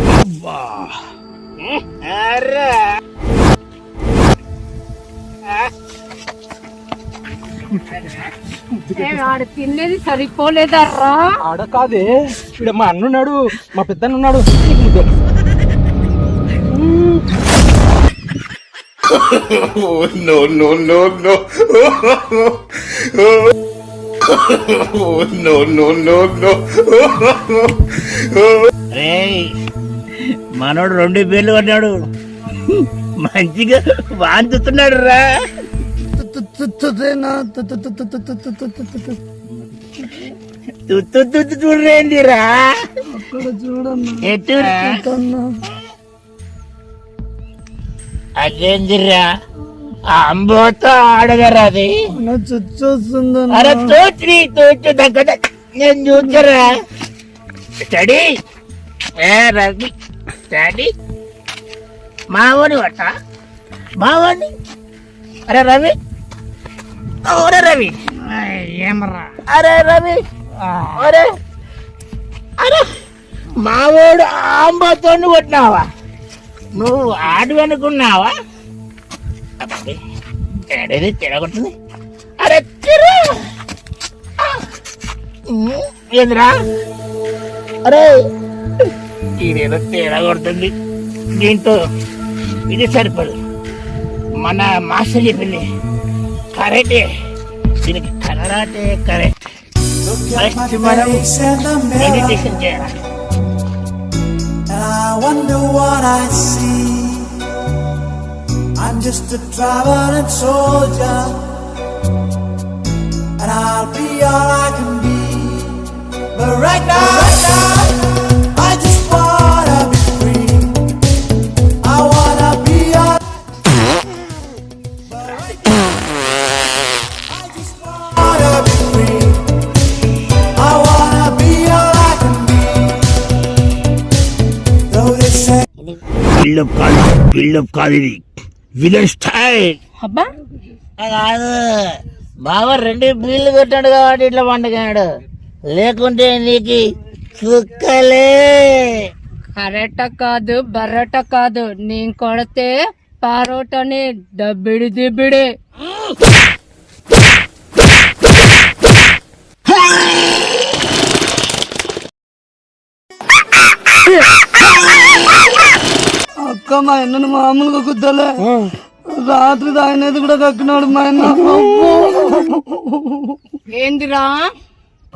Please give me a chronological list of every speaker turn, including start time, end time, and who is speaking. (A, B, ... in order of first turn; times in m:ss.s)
0:01.8-0:02.8 A
0:08.8-0:09.2 B
0:08.9-0:11.3 C
0:11.4-0:15.1 B
0:16.7-0:17.2 B
0:19.1-0:23.5 D
0:24.2-0:28.7 D
0:28.9-0:29.5 A
0:30.6-0:32.0 A
0:33.2-0:35.2 A
0:36.1-0:39.2 E
0:40.9-0:42.6 A
0:43.2-0:45.5 E
0:44.2-0:45.1 A
0:48.4-0:49.3 A
0:50.1-0:51.9 A
0:52.2-0:53.9 E
0:53.5-0:56.7 A
0:57.8-0:58.3 A
0:59.2-0:59.9 A
1:00.5-1:00.9 A
1:02.3-1:03.1 A
1:04.0-1:04.5 A
1:05.5-1:05.9 A
1:07.2-1:11.3 A
1:12.6-1:12.9 A
1:13.6-1:15.9 A
1:16.7-1:18.3 A
1:19.6-1:20.0 A
1:20.7-1:21.7 A
1:22.4-1:23.4 A
1:25.5-1:26.5 A
1:29.4-1:30.7 A
1:31.4-1:31.8 A
1:32.7-1:33.4 A
1:34.4-1:35.6 A
1:36.5-1:37.1 A
1:37.8-1:39.3 A
1:40.0-1:42.4 F
1:40.3-1:41.2 A
1:42.0-1:42.9 A
1:44.7-1:47.4 F
1:48.8-1:51.6 F
1:53.4-2:00.8 F
2:01.8-2:03.2 F
2:07.3-2:09.5 F
2:10.6-2:13.0 F
2:14.9-2:15.6 F
2:15.9-2:18.2 A
2:18.8-2:19.8 A
2:20.0-2:20.3 C
2:21.0-2:21.8 A
2:22.4-2:25.1 A
2:25.7-2:26.8 A
2:27.4-2:29.0 A
2:29.6-2:35.5 C
2:46.4-2:53.3 E
2:53.7-2:54.5 C